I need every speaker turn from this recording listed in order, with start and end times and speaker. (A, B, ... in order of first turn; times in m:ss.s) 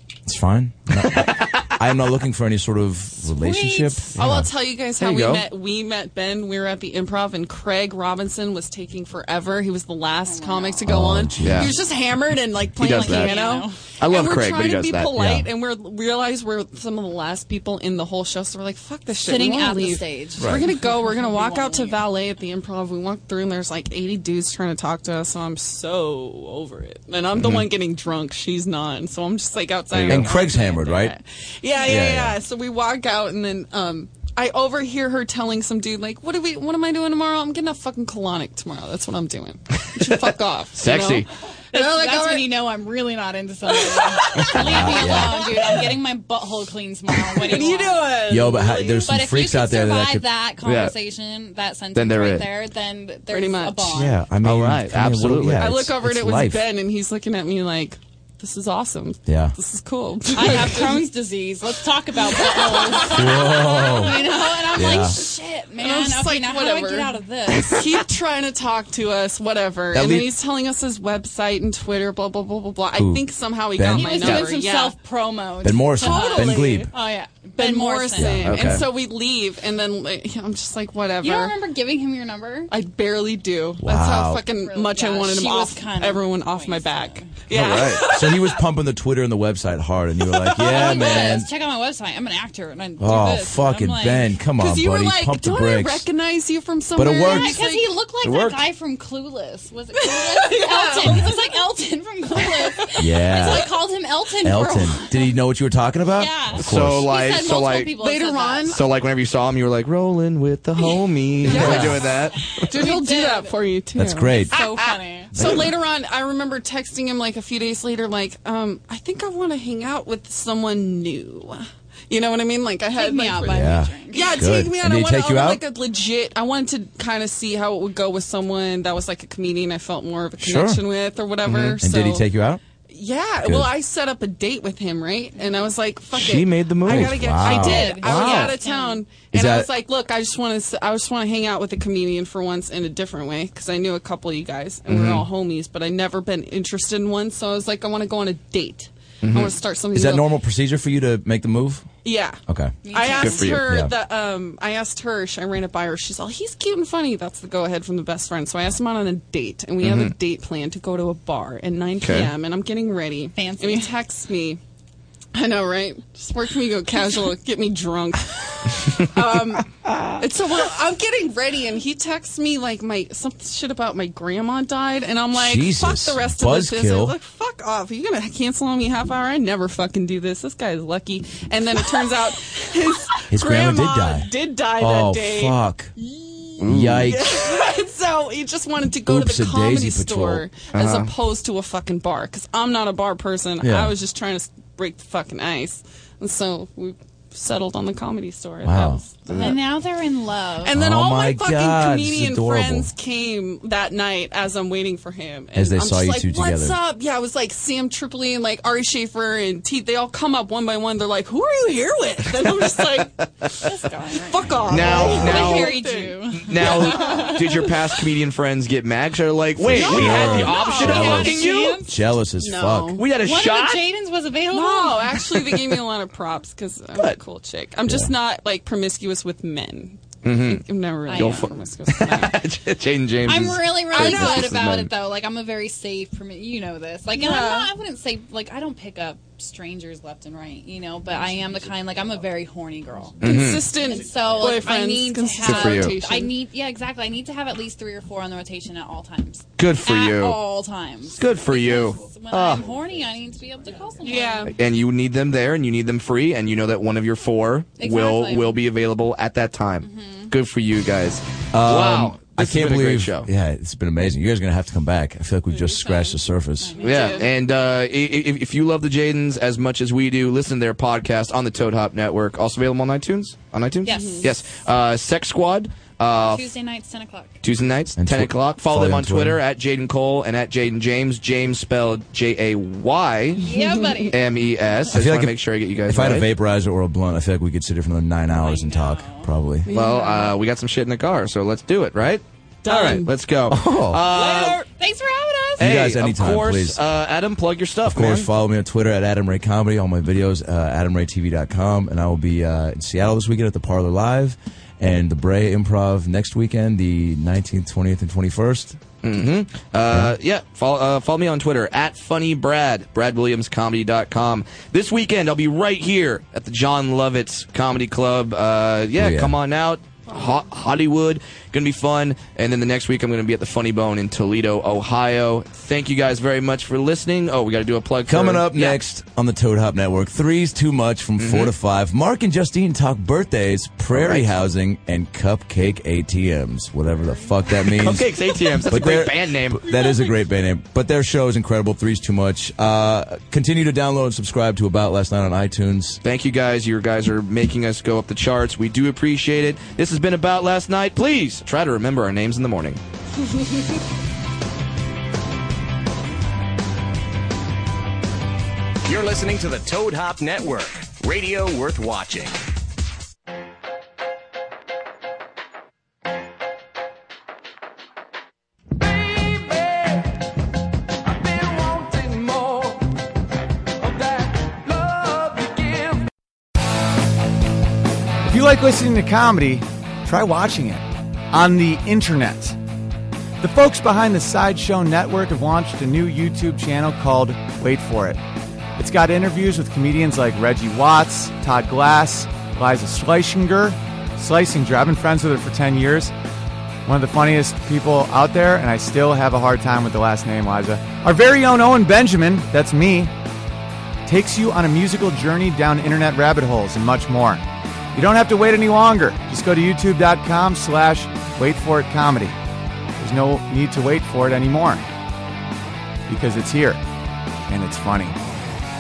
0:00.3-0:04.5 A
0:01.0-0:01.8 B
0:03.4-0:04.1 C
0:04.2-0:42.6 D
0:05.0-0:05.4 B
0:10.2-0:11.0 C
0:10.8-0:11.8 A
0:11.4-0:11.8 B
0:12.8-0:13.4 B
0:12.8-0:13.8 C
0:14.0-0:15.1 B
0:15.2-0:15.5 A
0:19.2-0:22.0 C
0:20.4-0:20.7 A
0:27.3-0:27.7 B
0:29.9-0:30.3 B
0:30.1-0:31.2 A
0:31.7-0:32.1 C
0:31.8-0:32.4 A
0:40.0-0:41.3 B
0:41.7-0:48.1 C
0:43.7-0:45.8 D
0:44.4-0:45.6 A
0:47.3-0:49.1 D
0:48.3-0:50.3 A
0:49.0-0:54.2 C
0:50.6-0:51.0 B
0:51.9-0:52.5 B
0:53.3-0:54.0 D
0:53.9-0:56.7 A
0:54.4-0:55.8 B
0:55.6-1:01.1 D
0:59.3-0:59.6 A
1:00.3-1:07.8 C
1:02.3-1:15.0 D
1:03.1-1:05.2 A
1:09.9-1:10.3 A
1:12.9-1:14.3 A
1:13.9-1:18.5 C
1:14.2-1:14.5 B
1:15.6-1:16.9 A
1:16.0-1:16.9 D
1:17.6-1:21.6 D
1:18.2-1:18.9 A
1:18.5-1:18.9 B
1:21.2-1:22.7 C
1:22.7-1:28.6 D
1:23.8-1:24.4 A
1:24.5-1:27.3 C
1:27.5-1:28.0 B
1:28.0-1:31.5 A
1:30.3-1:31.4 D
1:30.6-1:34.4 C
1:33.0-1:36.1 A
1:34.6-1:37.9 D
1:37.0-1:37.6 A
1:37.2-1:45.4 C
1:38.2-1:38.6 B
1:40.1-1:41.3 D
1:42.4-1:43.6 D
1:43.0-1:43.7 A
1:44.4-1:47.1 A
1:46.1-1:48.8 C
1:46.6-1:47.9 B
1:47.9-1:48.8 D
1:48.7-1:52.7 B
1:51.4-1:52.1 D
1:51.5-1:52.1 A
1:51.5-1:51.8 C
1:52.5-1:53.6 C
1:52.7-2:12.3 D
1:54.0-1:54.6 A
1:54.5-1:55.3 C
1:55.3-1:55.7 A
2:02.9-2:04.5 C
2:03.4-2:05.6 A
2:10.4-2:10.8 A
2:11.4-2:11.8 B
2:11.8-2:12.6 A
2:12.9-2:30.3 D
2:13.4-2:13.7 A
2:15.4-2:15.7 C
2:16.1-2:18.6 B
2:16.8-2:18.1 A
2:17.3-2:19.0 C
2:19.3-2:19.7 A
2:24.9-2:25.3 B
2:29.2-2:29.6 B
2:29.9-2:31.9 A
2:32.0-2:44.6 D
2:32.5-2:32.8 A
2:32.8-2:33.4 C
2:33.2-2:33.7 B
2:33.4-2:33.9 A
2:39.8-2:40.1 B
2:42.0-2:42.3 B
2:43.3-2:44.0 C
2:45.3-3:19.6 D
2:55.3-2:57.2 A
3:03.3-3:05.9 A
3:06.6-3:07.1 B
3:06.7-3:07.5 A
3:09.1-3:10.4 A
3:10.7-3:11.1 B
3:13.6-3:13.9 A
3:18.6-3:19.0 A
3:19.3-3:19.6 B
3:19.4-3:20.7 C
3:20.6-3:37.6 D
3:20.7-3:22.9 A
3:25.5-3:26.8 A
3:33.6-3:37.4 C
3:34.7-3:35.8 B
3:34.8-3:35.4 A
3:36.4-3:41.8 B
3:39.6-3:43.0 A
3:39.7-3:41.4 D
3:39.9-3:42.0 C
3:42.4-3:43.0 D
3:43.0-3:43.8 B
3:43.2-3:45.2 C
3:44.5-3:52.4 D
3:47.9-3:48.1 A
3:50.2-3:54.9 B
3:51.1-3:51.5 C
3:53.2-4:14.5 C
3:53.9-3:54.6 D
3:57.1-3:57.7 D
4:03.2-4:03.7 B
4:03.2-4:06.3 D
4:05.4-4:05.9 B
4:09.6-4:10.4 B
4:11.2-4:12.6 B
4:14.0-4:14.5 D
4:14.5-4:23.3 B
4:17.8-4:18.6 C
4:19.8-4:20.3 C
4:21.5-4:26.8 A
4:25.5-4:27.4 C
4:26.8-4:27.3 D
4:26.8-4:36.4 B
4:33.8-4:34.4 C
4:33.9-4:34.3 D
4:36.1-4:37.4 C
4:37.4-4:43.5 B
4:38.0-4:39.4 A
4:43.4-4:44.2 C
4:44.1-4:46.3 B
4:44.9-4:45.4 A
4:45.9-4:49.7 A
4:48.3-4:49.3 C
4:49.7-4:50.4 D
4:49.7-4:54.6 B
4:52.6-4:53.1 D
4:53.5-4:54.0 A
4:53.9-4:55.7 C
4:55.6-4:56.8 A
4:55.6-4:58.3 B
4:57.8-5:08.8 A
5:09.0-5:28.8 B
5:09.9-5:10.2 A
5:19.0-5:19.4 A
5:28.1-5:38.2 A
5:31.2-5:31.5 B
5:33.9-5:34.4 B
5:37.8-5:39.7 B
5:38.7-5:46.0 A
5:39.7-5:40.1 D
5:46.0-5:52.8 B
5:58.8-6:02.4 E
6:18.3-6:22.6 F
6:23.4-6:28.2 F
6:28.8-6:36.1 F
6:36.9-6:43.1 F
6:44.1-6:52.4 F
6:53.0-6:54.8 F
6:56.1-6:56.8 F
6:57.5-6:58.2 F